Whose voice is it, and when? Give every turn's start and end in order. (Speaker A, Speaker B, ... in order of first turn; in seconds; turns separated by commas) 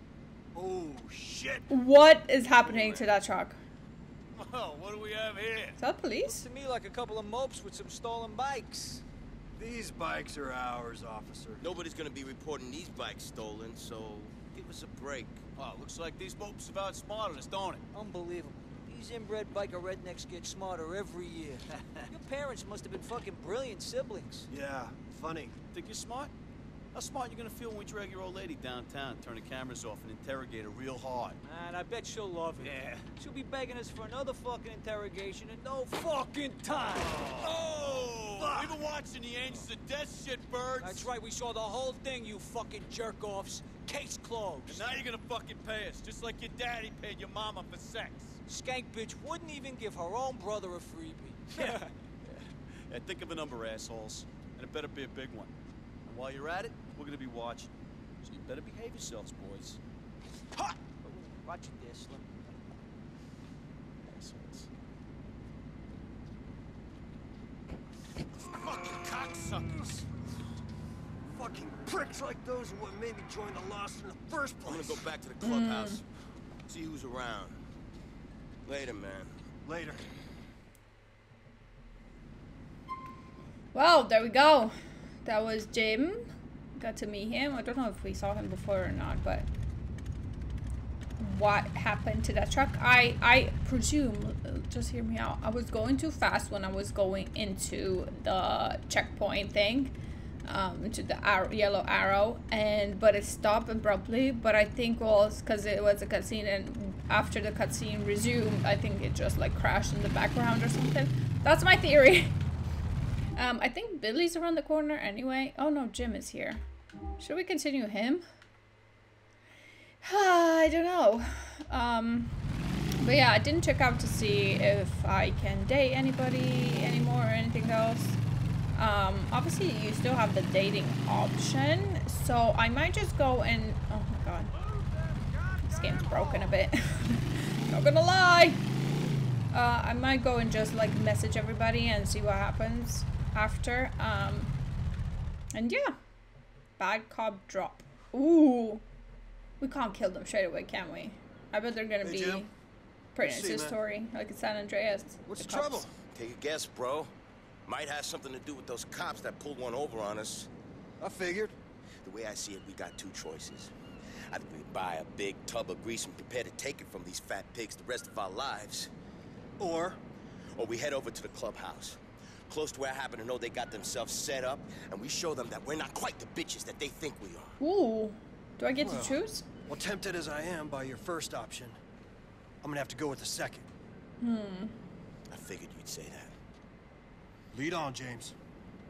Speaker A: 0.5-1.7, Speaker B: 1.7-3.6, Speaker C: 2.7-3.1, Speaker D: 4.4-5.8, Speaker B: 5.8-6.4, Speaker E: 6.2-9.0, Speaker A: 9.6-11.6, Speaker C: 11.6-15.4, Speaker D: 15.6-17.9, Speaker E: 17.9-24.5, Speaker A: 24.5-25.6, Speaker D: 25.7-26.3, Speaker D: 26.9-31.4, Speaker E: 31.4-37.5, Speaker D: 32.6-33.1, Speaker D: 36.9-41.1, Speaker E: 40.8-44.9, Speaker D: 44.7-48.4, Speaker E: 48.5-51.8, Speaker D: 51.5-55.5, Speaker D: 56.0-57.7, Speaker D: 58.2-59.8, Speaker E: 60.9-62.4, Speaker D: 64.0-64.7, Speaker D: 68.4-70.0, Speaker A: 71.3-75.1, Speaker C: 74.7-76.1, Speaker B: 75.4-76.0, Speaker C: 76.7-77.6, Speaker C: 78.7-79.3, Speaker A: 79.7-80.0, Speaker B: 83.7-84.7, Speaker B: 85.2-86.2, Speaker B: 86.8-89.5, Speaker B: 91.2-112.4, Speaker B: 113.4-116.6, Speaker B: 117.2-118.3, Speaker B: 120.0-122.3, Speaker B: 123.0-128.2, Speaker B: 128.8-134.5, Speaker E: 134.6-136.7, Speaker B: 135.7-138.6, Speaker B: 139.5-144.5, Speaker B: 145.5-146.0, Speaker B: 146.8-148.8, Speaker B: 149.6-152.5, Speaker A: 152.0-152.4, Speaker B: 153.2-155.9, Speaker A: 153.2-153.8, Speaker A: 155.3-155.9, Speaker C: 156.1-157.1, Speaker C: 157.7-160.5, Speaker A: 161.0-161.6, Speaker C: 162.0-163.7, Speaker C: 164.3-168.9, Speaker A: 169.6-170.0, Speaker C: 170.6-177.6, Speaker B: 177.6-179.5, Speaker A: 178.8-181.8, Speaker A: 182.6-183.7, Speaker B: 184.2-184.8, Speaker C: 185.3-186.3, Speaker A: 187.5-188.3